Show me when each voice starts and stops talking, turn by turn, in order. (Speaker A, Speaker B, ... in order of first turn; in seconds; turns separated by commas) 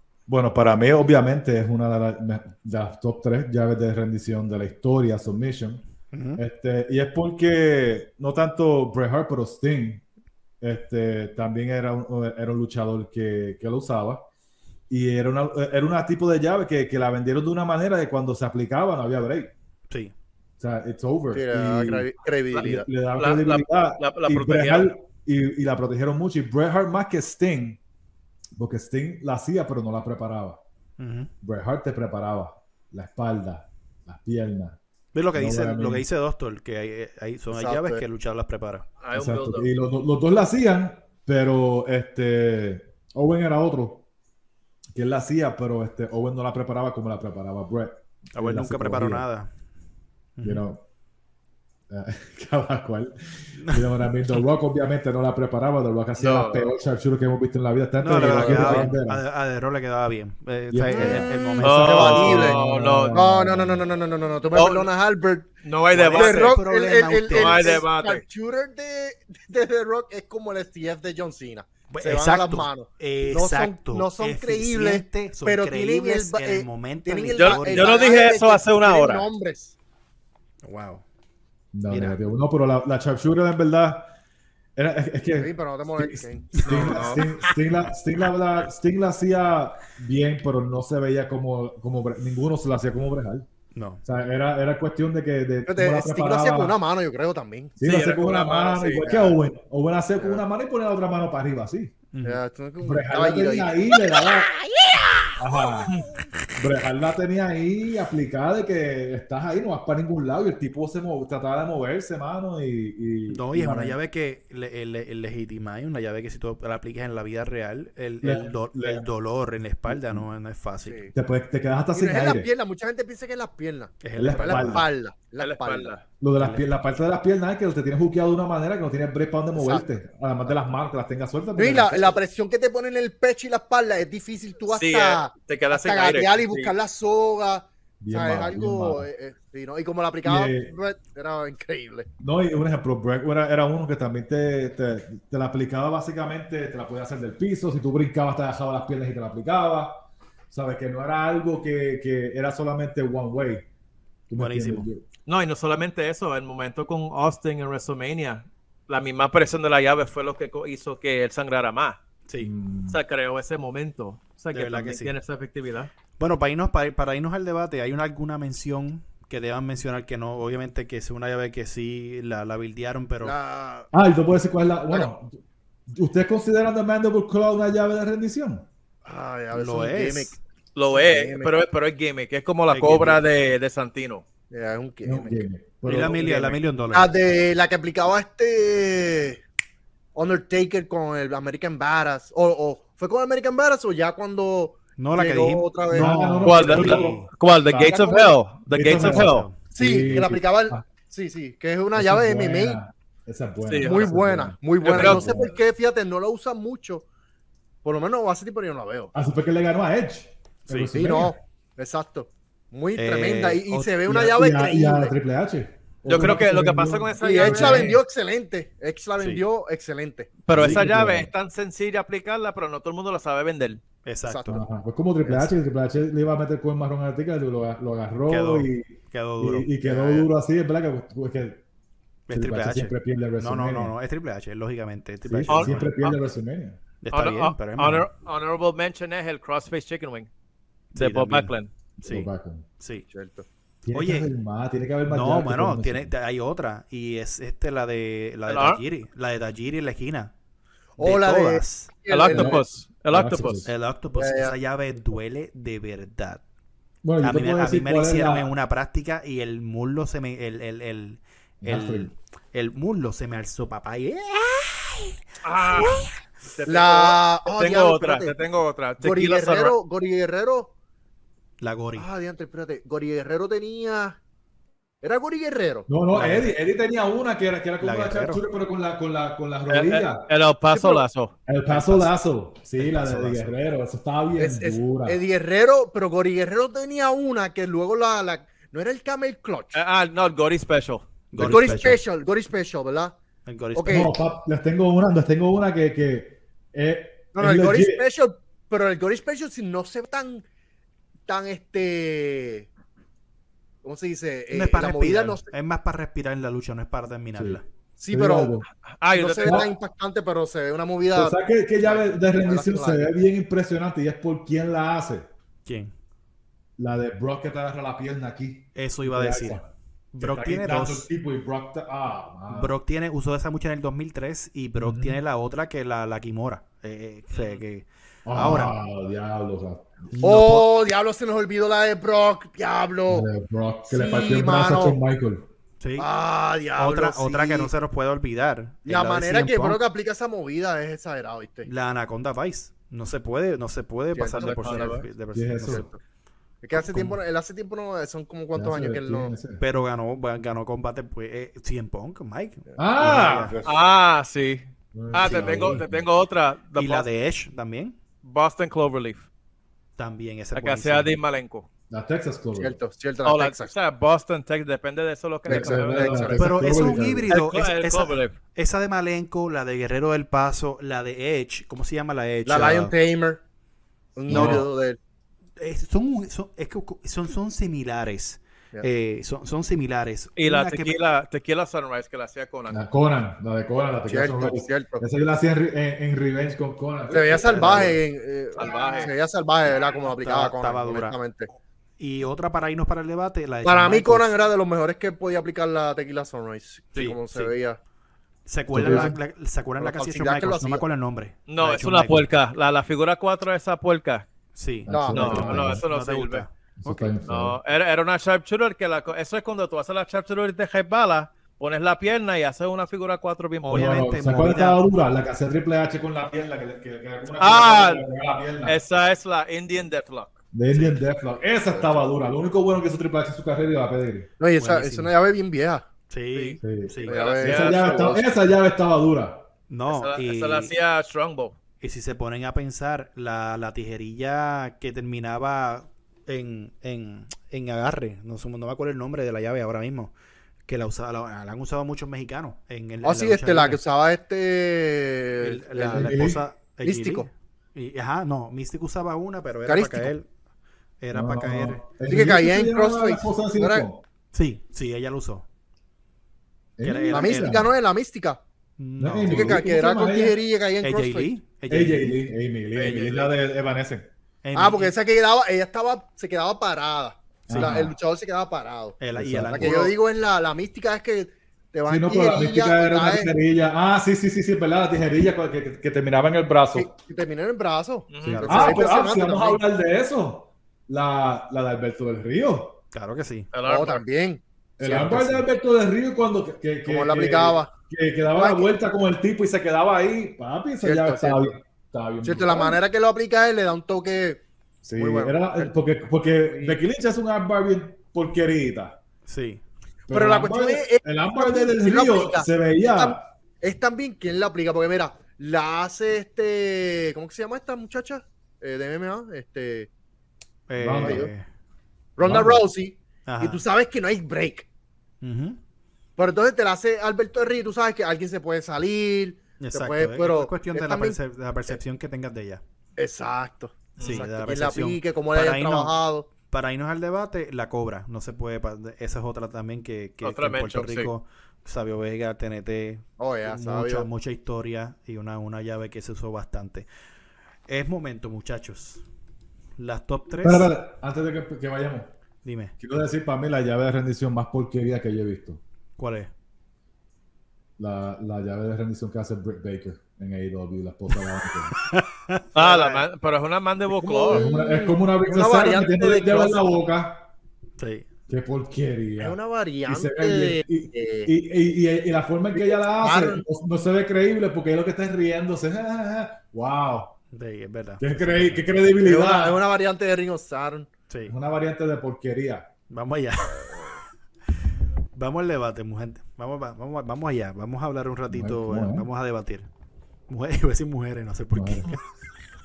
Speaker A: 0.3-5.8, Speaker B: 6.1-6.4, Speaker A: 6.4-10.0, Speaker A: 10.6-14.3, Speaker A: 14.9-19.5, Speaker A: 20.6-27.8, Speaker C: 21.3-22.9, Speaker D: 22.5-24.9, Speaker A: 28.6-30.6, Speaker B: 31.0-31.3, Speaker A: 31.4-34.8, Speaker B: 35.1-38.9, Speaker A: 35.3-36.0, Speaker C: 37.5-38.0, Speaker D: 39.0-39.7, Speaker A: 39.1-44.1, Speaker A: 44.9-49.3, Speaker B: 48.4-49.5, Speaker B: 50.4-50.6, Speaker A: 50.4-50.8, Speaker A: 51.9-59.2, Speaker B: 53.6-53.9, Speaker D: 56.2-56.7, Speaker B: 58.0-62.5, Speaker D: 58.2-58.6, Speaker A: 60.7-63.9, Speaker C: 60.9-62.6, Speaker D: 61.6-63.2, Speaker C: 63.1-65.5, Speaker D: 64.5-64.9, Speaker D: 65.6-66.6, Speaker B: 66.0-67.8, Speaker C: 66.0-79.8, Speaker D: 67.3-68.2, Speaker B: 71.9-78.0, Speaker D: 77.4-79.3, Speaker B: 80.6-81.0, Speaker A: 81.7-84.1, Speaker B: 81.9-82.2, Speaker A: 84.8-93.5, Speaker C: 85.4-87.2, Speaker D: 86.6-87.2, Speaker B: 93.7-94.0, Speaker A: 94.0-96.8, Speaker C: 95.7-97.8, Speaker A: 97.8-101.9, Speaker D: 97.8-99.1, Speaker C: 99.1-99.3, Speaker B: 102.1-102.4, Speaker C: 102.2-103.9, Speaker A: 102.8-104.6, Speaker A: 105.3-106.0, Speaker A: 106.5-114.0, Speaker B: 113.3-121.0, Speaker A: 118.2-119.1, Speaker A: 119.9-120.2, Speaker C: 120.8-121.1, Speaker A: 121.1-122.5, Speaker C: 121.9-125.9, Speaker B: 124.0-124.9, Speaker A: 124.2-124.9, Speaker D: 125.4-126.0, Speaker A: 126.2-132.2, Speaker B: 126.4-126.7, Speaker C: 129.6-129.9, Speaker C: 131.6-142.1, Speaker D: 134.7-136.8, Speaker A: 138.0-139.1, Speaker A: 140.2-140.7, Speaker A: 142.2-153.7, Speaker A: 154.3-155.0, Speaker B: 154.3-154.9, Speaker D: 155.3-162.0, Speaker A: 162.4-163.0, Speaker D: 162.9-165.9, Speaker B: 164.5-165.1, Speaker B: 166.2-173.4, Speaker C: 173.2-173.9, Speaker A: 173.9-178.7, Speaker C: 179.1-181.5, Speaker B: 179.5-180.4, Speaker D: 180.8-184.2, Speaker B: 182.7-183.2, Speaker C: 184.5-185.4, Speaker A: 185.1-186.6, Speaker B: 185.8-187.1, Speaker C: 186.9-189.4, Speaker C: 190.2-196.2, Speaker B: 195.0-197.3, Speaker A: 195.9-198.1, Speaker D: 196.4-199.5, Speaker C: 197.8-198.4, Speaker A: 198.7-200.8, Speaker B: 198.8-199.6, Speaker C: 199.8-202.8, Speaker A: 201.9-205.6, Speaker D: 203.7-204.1, Speaker C: 203.8-207.1, Speaker D: 204.8-205.3, Speaker C: 207.8-209.1, Speaker A: 209.1-211.4, Speaker B: 210.7-210.9, Speaker C: 210.9-215.1, Speaker B: 213.0-214.0, Speaker A: 214.1-218.0, Speaker D: 216.1-218.0, Speaker C: 217.2-220.4, Speaker B: 219.2-219.4, Speaker D: 220.5-223.8, Speaker A: 220.5-221.3, Speaker B: 220.5-220.9, Speaker B: 224.1-224.6, Speaker C: 224.3-224.6, Speaker A: 224.5-231.6, Speaker B: 225.2-225.5, Speaker B: 228.3-230.3, Speaker B: 232.3-235.9, Speaker A: 232.3-233.9, Speaker A: 235.3-236.8, Speaker D: 235.5-236.2, Speaker B: 237.0-238.1, Speaker D: 237.1-240.3, Speaker B: 240.9-243.1, Speaker D: 240.9-241.7, Speaker A: 242.0-242.7, Speaker C: 243.1-243.5, Speaker A: 243.8-246.1, Speaker B: 243.9-244.3, Speaker B: 245.1-250.3, Speaker D: 248.5-248.8, Speaker C: 251.0-252.6, Speaker B: 251.0-251.9, Speaker D: 252.1-253.7, Speaker A: 252.3-253.7, Speaker B: 253.6-256.4, Speaker C: 254.2-254.6, Speaker A: 257.0-258.5, Speaker B: 257.2-265.1, Speaker A: 261.6-262.1, Speaker D: 265.4-269.8, Speaker C: 266.7-268.4, Speaker C: 269.0-270.7, Speaker B: 271.6-272.1, Speaker C: 272.0-274.2, Speaker C: 275.0-275.9, Speaker A: 275.9-280.3, Speaker B: 276.1-276.6, Speaker B: 277.8-278.4, Speaker D: 279.7-281.3, Speaker C: 280.7-281.1, Speaker A: 281.5-285.2, Speaker B: 281.7-282.1, Speaker B: 282.8-283.6, Speaker C: 284.4-289.8, Speaker D: 289.7-291.1, Speaker B: 291.3-292.0, Speaker A: 291.4-291.9, Speaker C: 291.4-293.2, Speaker B: 293.5-294.1, Speaker C: 293.8-294.2, Speaker A: 293.9-298.1, Speaker C: 297.3-300.4, Speaker C: 301.3-302.7, Speaker C: 303.8-305.5, Speaker B: 304.5-307.6, Speaker A: 307.3-308.7, Speaker C: 308.0-308.6, Speaker D: 309.0-309.7, Speaker C: 309.1-313.1, Speaker A: 309.4-309.7, Speaker A: 311.1-315.3, Speaker B: 315.6-315.9, Speaker A: 316.8-319.7, Speaker B: 318.8-319.6, Speaker B: 320.1-321.1, Speaker A: 320.2-322.7, Speaker B: 322.5-328.8, Speaker A: 324.8-325.2, Speaker D: 327.3-327.6, Speaker A: 328.3-330.1, Speaker B: 330.1-330.7, Speaker C: 330.2-333.3, Speaker A: 333.1-335.5, Speaker C: 333.9-335.0, Speaker B: 335.8-336.1, Speaker C: 336.0-337.7, Speaker B: 336.8-339.8, Speaker C: 338.9-341.7, Speaker B: 341.6-345.9, Speaker C: 344.1-345.0, Speaker D: 344.4-345.0, Speaker A: 345.3-345.9, Speaker C: 345.7-346.0, Speaker C: 346.6-349.4, Speaker A: 346.8-347.1, Speaker A: 348.5-349.6, Speaker B: 349.6-353.6, Speaker A: 352.8-353.7, Speaker D: 353.6-357.1, Speaker A: 354.9-356.1, Speaker B: 355.2-355.8, Speaker B: 356.8-358.0, Speaker D: 358.2-359.3, Speaker B: 360.0-361.1, Speaker D: 360.5-361.7, Speaker A: 361.9-362.8, Speaker C: 362.6-363.7, Speaker D: 363.2-366.4, Speaker C: 365.5-366.5, Speaker A: 365.5-367.3, Speaker B: 366.4-372.9, Speaker D: 367.3-368.4, Speaker C: 372.4-373.4, Speaker C: 374.2-375.0, Speaker A: 374.3-374.7, Speaker B: 374.3-374.6, Speaker B: 375.6-380.9, Speaker D: 380.4-382.9, Speaker A: 382.7-388.0, Speaker C: 384.1-385.0, Speaker C: 387.1-391.5, Speaker D: 388.6-389.1, Speaker B: 390.2-391.1, Speaker B: 392.0-394.4, Speaker C: 393.6-397.8, Speaker B: 396.9-397.6, Speaker B: 398.5-402.3, Speaker A: 398.7-399.1, Speaker C: 398.8-399.2, Speaker C: 399.8-400.9, Speaker D: 401.5-404.3, Speaker B: 404.6-407.2, Speaker A: 404.9-405.8, Speaker C: 404.9-405.5, Speaker D: 405.1-406.5, Speaker A: 406.8-407.6, Speaker D: 407.3-414.1, Speaker B: 413.6-414.8, Speaker A: 413.7-418.8, Speaker D: 417.4-418.1, Speaker D: 418.6-420.4, Speaker A: 420.5-424.3, Speaker B: 420.7-421.0, Speaker C: 421.7-422.1, Speaker C: 424.4-425.9, Speaker B: 424.6-425.1, Speaker B: 426.1-427.2, Speaker D: 426.3-428.1, Speaker A: 426.6-429.5, Speaker C: 427.1-428.2, Speaker B: 429.7-430.7, Speaker D: 429.9-431.6, Speaker B: 431.8-440.1, Speaker B: 440.7-443.8, Speaker C: 443.0-446.3, Speaker B: 445.4-450.3, Speaker A: 445.8-446.4, Speaker C: 446.8-447.3, Speaker C: 449.7-450.1, Speaker B: 451.0-451.8, Speaker A: 451.1-454.0, Speaker C: 452.1-453.9, Speaker B: 454.3-455.5, Speaker A: 456.8-457.7, Speaker B: 456.8-457.7, Speaker C: 457.1-458.4, Speaker B: 458.8-459.6, Speaker A: 459.0-460.4, Speaker C: 459.2-461.3, Speaker B: 460.8-462.2, Speaker A: 461.7-464.1, Speaker D: 462.7-463.3, Speaker B: 464.4-464.9, Speaker C: 464.6-469.0, Speaker A: 467.5-468.0, Speaker B: 467.5-467.8, Speaker B: 469.0-469.9, Speaker A: 469.2-469.9, Speaker C: 469.5-473.3, Speaker A: 471.9-476.9, Speaker C: 476.8-479.6, Speaker D: 478.1-478.6, Speaker B: 478.2-479.0, Speaker A: 478.3-482.8, Speaker B: 482.9-483.5, Speaker D: 483.5-484.0, Speaker C: 483.6-485.4, Speaker A: 484.8-492.8, Speaker B: 485.1-485.4, Speaker C: 486.9-487.7, Speaker C: 488.4-488.7, Speaker C: 490.8-491.6, Speaker C: 492.2-494.4, Speaker A: 494.8-499.0, Speaker C: 495.0-495.7, Speaker C: 496.5-496.8, Speaker B: 499.3-499.6, Speaker A: 500.1-503.3, Speaker C: 500.1-509.9, Speaker B: 510.7-511.4, Speaker A: 510.8-511.3, Speaker C: 511.0-511.3, Speaker C: 512.2-514.7, Speaker A: 512.2-512.6, Speaker B: 513.3-513.6, Speaker B: 515.2-515.6, Speaker C: 516.2-521.8, Speaker B: 519.6-522.6, Speaker C: 523.0-526.3, Speaker D: 524.0-524.3, Speaker B: 524.0-536.9, Speaker D: 530.2-531.1, Speaker C: 533.2-534.1, Speaker B: 537.7-539.0, Speaker B: 539.8-540.7, Speaker A: 540.4-542.1, Speaker B: 542.4-542.8, Speaker A: 542.8-545.6, Speaker B: 546.0-546.3, Speaker A: 547.8-551.8, Speaker B: 551.8-552.4, Speaker D: 552.5-554.5, Speaker C: 552.6-553.0, Speaker C: 553.9-556.7, Speaker A: 554.3-557.3, Speaker B: 557.8-558.1, Speaker A: 558.3-567.2, Speaker C: 559.2-561.3, Speaker C: 562.5-563.4, Speaker B: 567.3-568.7, Speaker A: 568.0-569.6, Speaker C: 569.0-570.9, Speaker B: 571.1-571.3, Speaker A: 571.3-572.7, Speaker B: 572.9-573.7, Speaker B: 575.1-579.7, Speaker A: 578.3-579.1, Speaker B: 580.3-582.0, Speaker A: 581.5-582.0